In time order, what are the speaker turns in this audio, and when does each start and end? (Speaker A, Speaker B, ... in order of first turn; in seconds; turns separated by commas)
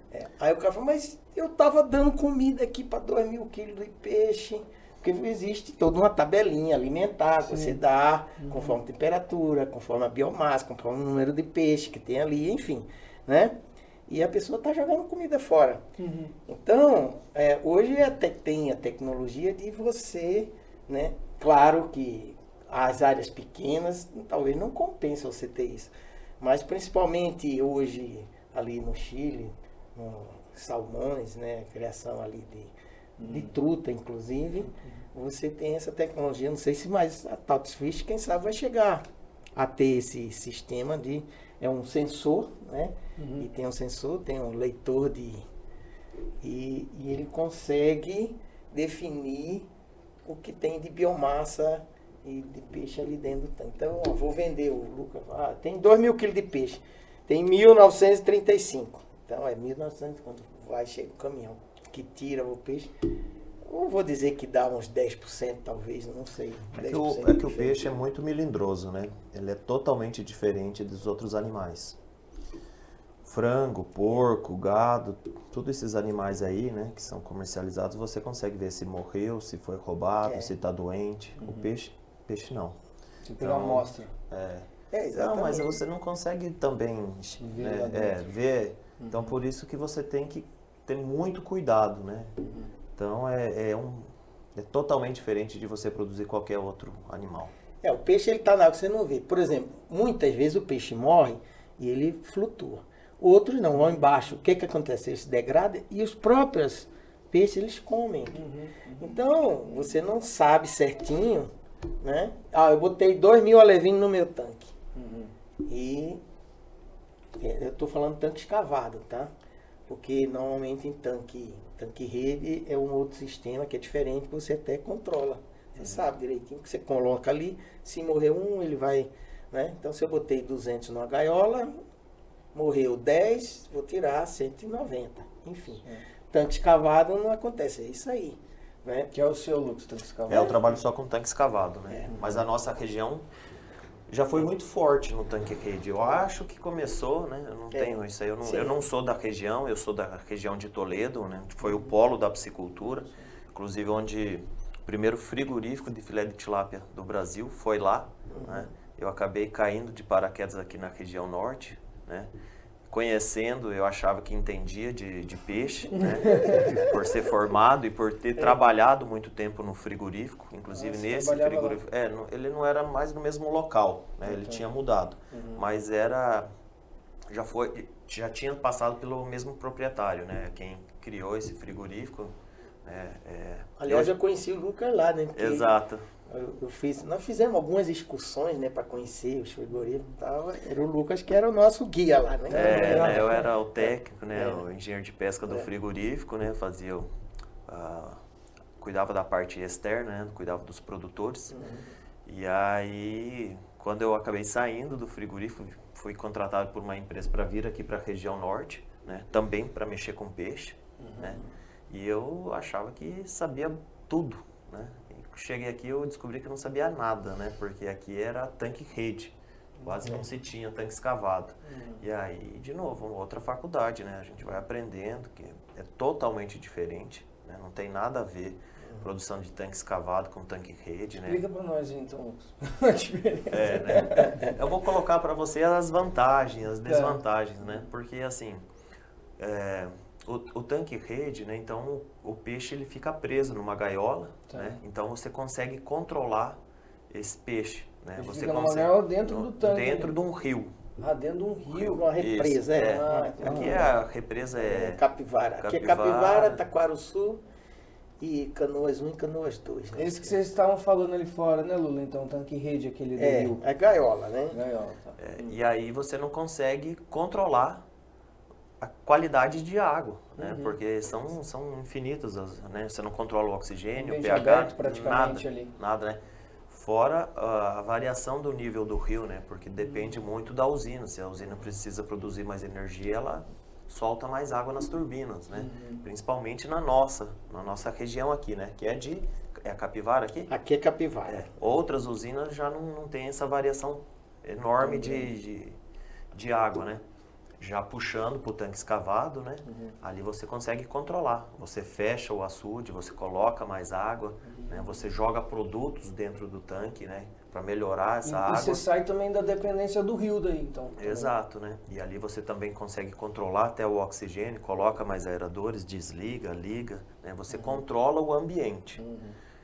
Speaker A: 0.1-15.8, Speaker B: 7.5-7.8, Speaker B: 8.4-8.8, Speaker B: 16.0-16.3, Speaker A: 16.4-32.7, Speaker B: 33.2-33.5, Speaker A: 33.2-45.4, Speaker B: 34.6-35.0, Speaker B: 43.2-43.5, Speaker A: 46.4-49.7, Speaker A: 50.2-62.9, Speaker A: 63.6-67.8, Speaker C: 66.8-72.0, Speaker C: 73.2-82.8, Speaker A: 80.2-80.5, Speaker B: 81.4-81.7, Speaker B: 83.3-84.1, Speaker C: 83.4-92.3, Speaker A: 84.9-85.8, Speaker B: 87.4-88.2, Speaker B: 89.0-89.3, Speaker B: 92.4-92.7, Speaker C: 93.0-97.5, Speaker A: 97.8-108.4, Speaker B: 108.3-109.2, Speaker A: 109.0-111.5, Speaker A: 112.0-114.7, Speaker B: 114.9-115.3, Speaker A: 115.6-116.2, Speaker A: 117.4-119.3, Speaker A: 119.9-131.7, Speaker A: 132.5-139.1, Speaker B: 139.1-140.5, Speaker C: 140.3-143.2, Speaker A: 140.3-140.6, Speaker B: 142.1-142.4, Speaker C: 144.1-162.3, Speaker A: 147.7-148.8, Speaker A: 158.3-158.7, Speaker C: 162.9-176.5, Speaker B: 166.0-166.8, Speaker B: 170.7-171.8, Speaker B: 174.2-174.6, Speaker B: 175.3-175.6, Speaker C: 177.3-184.1, Speaker A: 183.8-185.7, Speaker C: 185.3-186.0, Speaker A: 186.3-193.3, Speaker B: 192.5-193.5, Speaker C: 192.5-197.1, Speaker A: 193.8-194.6, Speaker C: 197.7-198.2, Speaker C: 198.8-201.6, Speaker A: 201.5-201.8, Speaker C: 202.2-231.4, Speaker B: 211.0-211.4, Speaker B: 221.7-222.0, Speaker B: 231.2-234.4, Speaker C: 233.5-238.6, Speaker B: 236.8-237.2, Speaker C: 239.4-250.7, Speaker B: 244.5-244.8, Speaker B: 248.2-250.2, Speaker B: 251.0-252.1, Speaker C: 251.7-255.0, Speaker A: 251.8-253.9, Speaker B: 252.8-253.9, Speaker A: 254.6-257.4, Speaker C: 255.6-256.6, Speaker A: 258.2-260.4, Speaker B: 259.9-263.6, Speaker A: 263.2-264.6, Speaker B: 264.5-265.5, Speaker C: 265.2-267.8, Speaker C: 268.8-290.5, Speaker B: 270.4-270.7, Speaker B: 273.9-275.7, Speaker B: 285.5-286.0, Speaker A: 290.5-291.4, Speaker C: 291.2-295.8, Speaker B: 294.8-295.3, Speaker C: 296.3-297.0, Speaker C: 297.6-308.8, Speaker B: 299.6-299.9, Speaker B: 304.4-304.9, Speaker B: 308.2-311.3, Speaker C: 311.0-319.0, Speaker B: 317.5-317.8, Speaker B: 319.0-319.4